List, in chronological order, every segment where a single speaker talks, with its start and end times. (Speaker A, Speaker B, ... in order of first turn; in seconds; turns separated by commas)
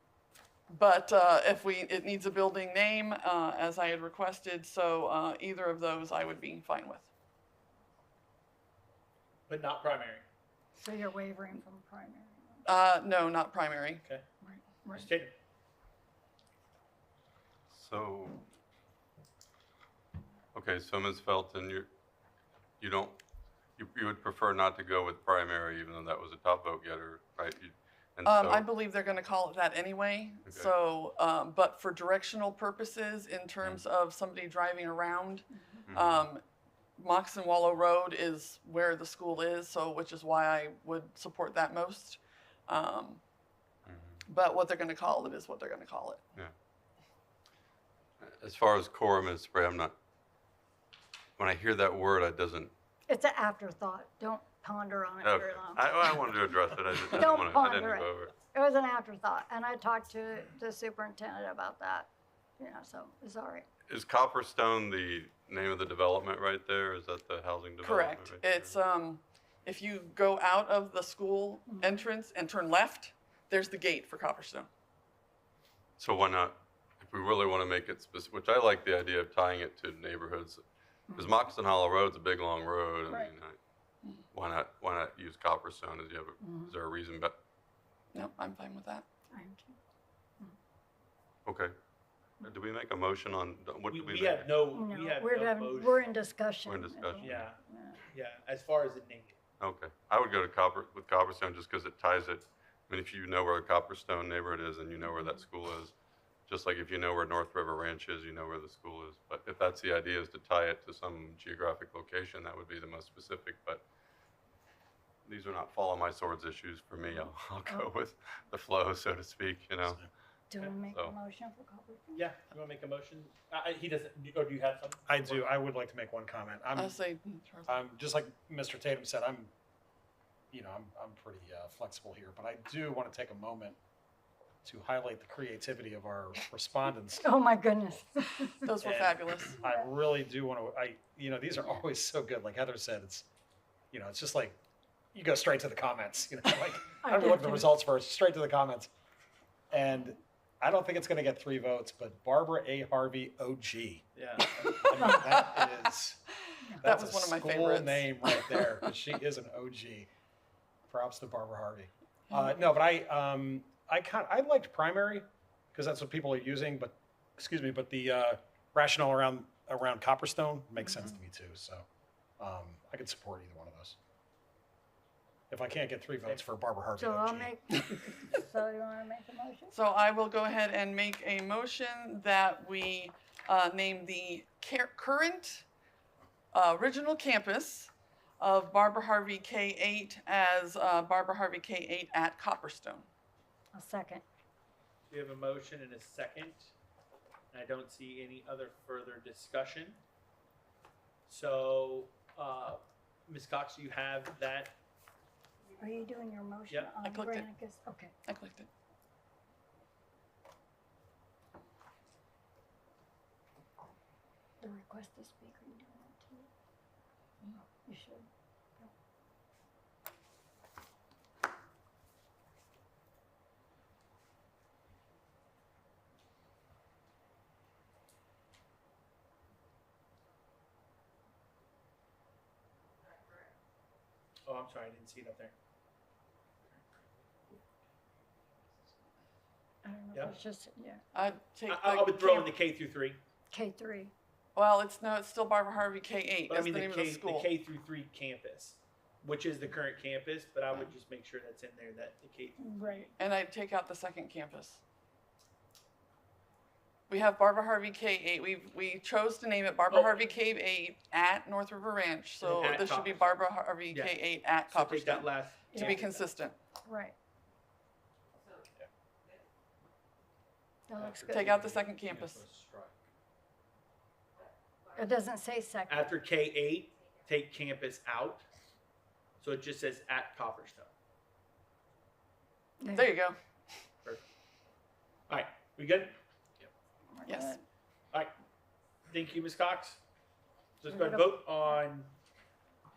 Speaker A: 0.7-7.1, Speaker B: 9.5-10.2, Speaker C: 10.8-12.6, Speaker A: 12.7-14.0, Speaker C: 14.4-15.1, Speaker B: 14.9-15.3, Speaker D: 17.7-18.4, Speaker D: 20.5-21.9, Speaker D: 22.8-23.2, Speaker D: 23.8-28.7, Speaker A: 28.2-36.4, Speaker D: 30.5-30.7, Speaker D: 35.9-36.3, Speaker A: 37.0-43.2, Speaker D: 43.9-44.1, Speaker A: 44.2-46.2, Speaker D: 48.2-50.0, Speaker D: 51.4-52.7, Speaker C: 53.1-56.4, Speaker D: 55.2-58.3, Speaker C: 57.0-63.7, Speaker D: 63.9-68.7, Speaker A: 67.8-74.7, Speaker C: 71.7-72.0, Speaker D: 76.0-80.6, Speaker C: 81.1-81.4, Speaker D: 81.2-83.6, Speaker D: 84.3-87.4, Speaker C: 86.4-86.7, Speaker A: 88.1-89.0, Speaker C: 89.3-89.8, Speaker D: 91.5-91.7, Speaker D: 92.4-94.7, Speaker B: 93.9-96.1, Speaker C: 94.7-98.0, Speaker D: 96.7-97.5, Speaker B: 97.2-99.4, Speaker D: 99.6-105.9, Speaker D: 106.5-113.8, Speaker D: 115.3-120.0, Speaker C: 117.1-117.9, Speaker C: 120.5-122.3, Speaker D: 120.8-121.2, Speaker B: 122.1-125.5, Speaker E: 125.1-127.0, Speaker A: 126.8-127.8, Speaker E: 127.7-129.5, Speaker E: 130.5-133.8, Speaker E: 134.6-137.4, Speaker C: 137.2-138.8, Speaker A: 138.6-139.6, Speaker B: 138.8-139.3, Speaker E: 139.5-143.3, Speaker C: 139.6-139.8, Speaker E: 143.9-144.6, Speaker E: 145.1-148.9, Speaker C: 147.0-147.7, Speaker E: 149.7-156.2, Speaker B: 154.2-154.8, Speaker E: 156.8-160.1, Speaker A: 156.8-158.7, Speaker E: 160.9-171.8, Speaker E: 172.4-174.0, Speaker E: 175.5-177.5, Speaker C: 177.0-179.7, Speaker A: 179.7-185.7, Speaker A: 186.5-193.1, Speaker C: 193.7-194.2, Speaker B: 195.1-196.7, Speaker B: 197.5-200.0, Speaker B: 201.3-204.8, Speaker C: 205.8-208.1, Speaker A: 207.0-207.5, Speaker A: 208.2-208.7, Speaker C: 214.6-216.5, Speaker C: 217.8-218.3, Speaker B: 234.5-235.5, Speaker C: 239.8-241.0, Speaker A: 241.1-242.5, Speaker B: 241.7-243.2, Speaker C: 243.5-244.1, Speaker A: 244.6-247.5, Speaker B: 246.5-253.1, Speaker C: 252.6-253.1, Speaker A: 253.2-254.8, Speaker A: 257.1-266.6, Speaker B: 259.9-260.3, Speaker B: 262.4-266.3, Speaker C: 266.9-267.1, Speaker C: 270.9-271.5, Speaker B: 271.0-272.9, Speaker A: 271.3-272.4, Speaker C: 274.9-276.1, Speaker B: 275.9-278.5, Speaker B: 279.4-280.9, Speaker C: 282.8-283.1, Speaker A: 282.9-283.4, Speaker B: 285.3-286.2, Speaker C: 287.1-287.6, Speaker A: 287.3-287.6, Speaker B: 289.1-290.0, Speaker B: 290.8-292.1, Speaker C: 290.9-291.8